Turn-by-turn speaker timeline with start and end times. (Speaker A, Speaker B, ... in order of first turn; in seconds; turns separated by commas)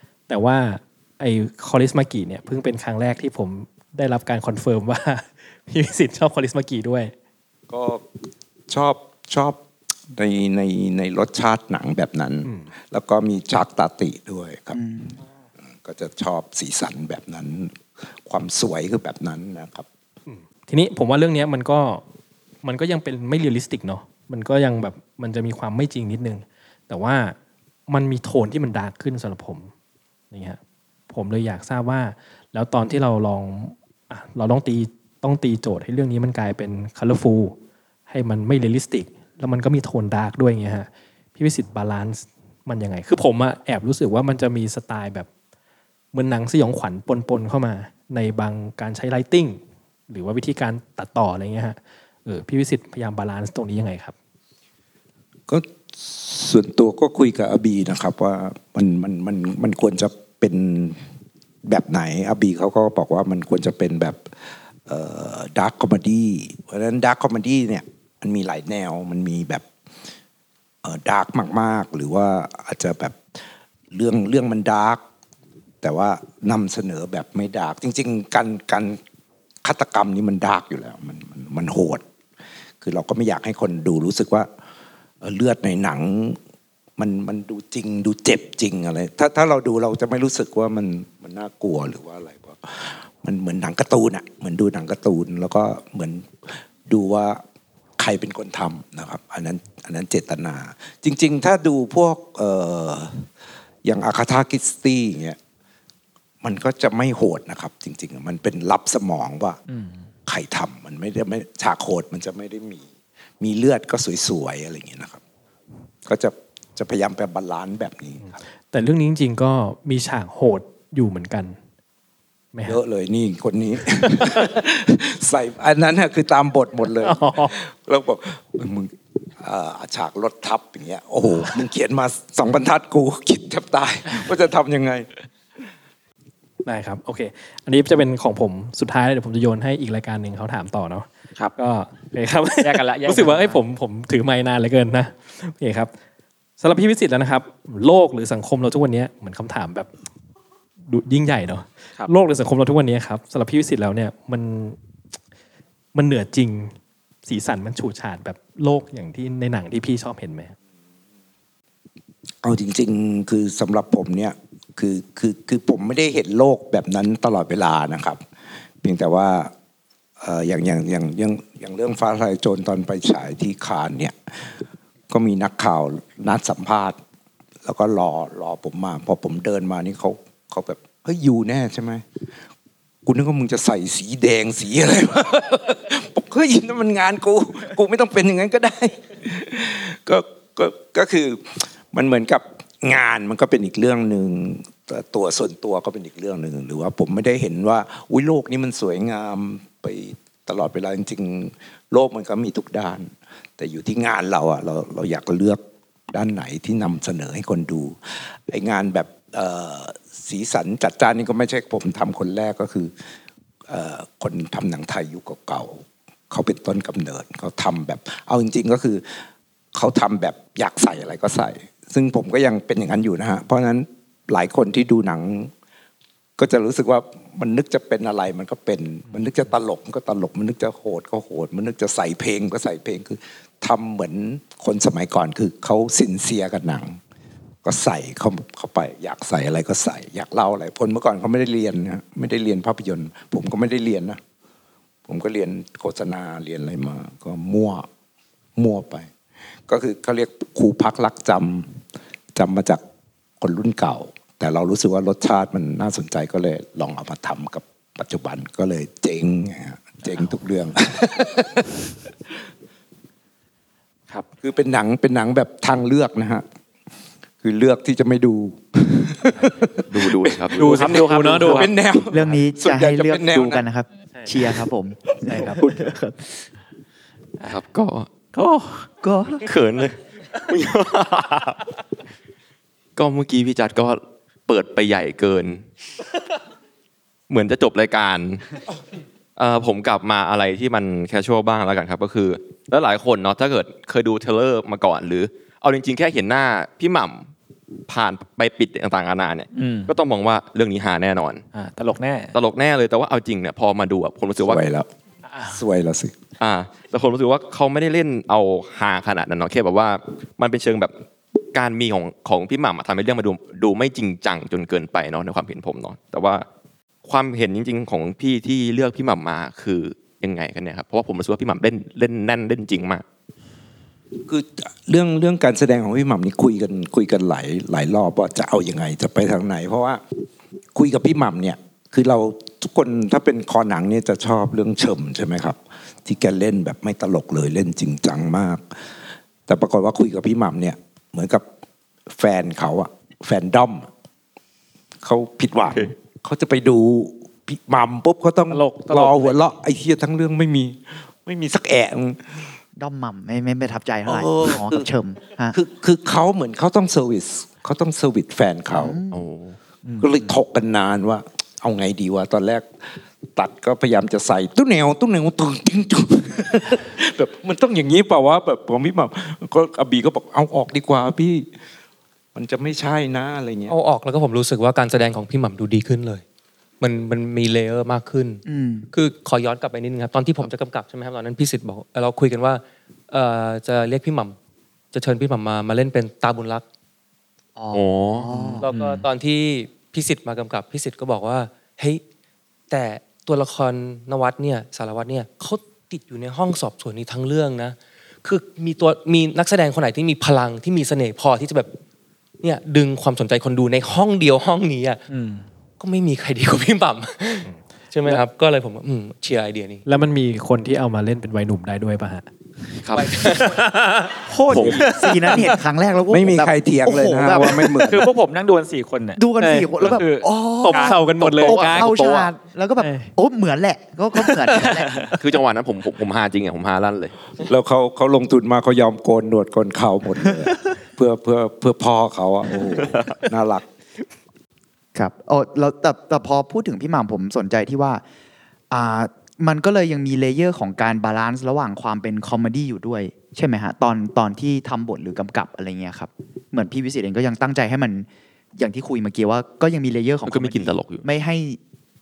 Speaker A: 0.3-7.1, Speaker B: 7.7-8.1, Speaker B: 8.7-9.6, Speaker B: 10.1-14.8, Speaker A: 12.4-12.7, Speaker C: 14.7-15.2, Speaker B: 15.7-19.9, Speaker A: 20.3-22.0, Speaker A: 22.6-27.4, Speaker A: 27.9-29.7, Speaker A: 30.3-30.6, Speaker A: 31.1-37.6, Speaker A: 38.1-45.3, Speaker A: 46.1-54.1, Speaker B: 55.5-61.0, Speaker B: 61.7-64.3, Speaker B: 64.9-69.7, Speaker B: 70.8-75.0, Speaker B: 75.8-79.0, Speaker B: 79.6-82.0, Speaker B: 82.8-84.5, Speaker B: 85.2-86.4, Speaker B: 87.0-97.4, Speaker B: 98.0-103.3, Speaker B: 103.8-105.4, Speaker B: 106.4-109.6, Speaker D: 109.7-110.1, Speaker B: 110.3-112.9, Speaker B: 113.4-115.2, Speaker B: 116.1-118.2, Speaker A: 118.2-121.6, Speaker A: 122.5-122.8, Speaker B: 122.6-135.1, Speaker A: 127.0-127.5, Speaker A: 136.7-145.9, Speaker D: 142.6-143.6, Speaker A: 146.6-149.9, Speaker A: 150.9-154.8, Speaker A: 155.9-156.7, Speaker A: 157.3-160.5, Speaker B: 162.4-168.2, Speaker B: 168.8-169.5, Speaker B: 170.2-177.0, Speaker B: 177.7-182.1, Speaker B: 183.1-212.9, Speaker B: 213.7-219.2, Speaker B: 219.7-225.5, Speaker B: 226.4-237.0, Speaker B: 237.6-244.2, Speaker B: 245.1-247.9, Speaker B: 248.6-249.1, Speaker B: 249.7-251.8, Speaker B: 252.3-252.8, Speaker B: 253.4-261.7, Speaker B: 264.4-266.5, Speaker B: 267.4-273.6, Speaker E: 269.9-270.9, Speaker D: 270.6-271.7, Speaker A: 270.6-271.7, Speaker C: 272.1-276.3, Speaker A: 275.3-275.6, Speaker E: 277.4-278.2, Speaker D: 278.3-278.9, Speaker C: 279.0-279.4, Speaker E: 279.4-280.0, Speaker E: 280.5-281.6, Speaker E: 283.0-285.7, Speaker E: 287.3-288.5, Speaker E: 289.4-297.3, Speaker E: 297.9-301.4, Speaker D: 299.5-299.9, Speaker D: 301.5-302.4, Speaker E: 302.3-304.7, Speaker B: 304.4-304.9, Speaker B: 305.4-306.1, Speaker E: 306.4-310.9, Speaker E: 311.5-316.5, Speaker E: 317.1-323.1, Speaker B: 324.3-330.0, Speaker B: 330.8-338.9, Speaker B: 339.5-341.4, Speaker B: 342.1-343.9, Speaker B: 345.0-352.6, Speaker D: 348.5-349.4, Speaker C: 352.8-355.6, Speaker B: 354.1-354.9, Speaker B: 355.5-359.0, Speaker C: 358.7-359.2, Speaker E: 359.1-359.6, Speaker D: 359.8-360.2, Speaker B: 360.0-371.5, Speaker B: 372.4-373.8, Speaker F: 373.7-376.2, Speaker F: 376.8-384.4, Speaker C: 378.5-378.9, Speaker F: 384.9-386.6, Speaker C: 387.6-388.7, Speaker E: 387.7-388.3, Speaker D: 388.6-389.1, Speaker F: 388.6-392.0, Speaker F: 392.7-401.7, Speaker F: 402.4-405.0, Speaker D: 405.1-405.5, Speaker F: 405.8-409.9, Speaker A: 409.9-412.3, Speaker E: 412.9-413.4, Speaker A: 413.1-414.2, Speaker F: 413.2-413.6, Speaker D: 414.3-414.8, Speaker E: 414.5-415.1, Speaker C: 414.5-417.7, Speaker A: 414.8-415.4, Speaker B: 416.1-418.1, Speaker D: 417.6-420.3, Speaker C: 419.2-425.0, Speaker A: 419.4-419.7, Speaker E: 419.8-420.2, Speaker A: 420.6-421.9, Speaker E: 421.1-422.3, Speaker A: 422.8-423.1, Speaker D: 424.7-425.1, Speaker E: 425.1-427.1, Speaker B: 427.4-433.6, Speaker E: 432.6-433.2, Speaker C: 434.9-438.0, Speaker C: 438.7-451.6, Speaker E: 450.3-451.1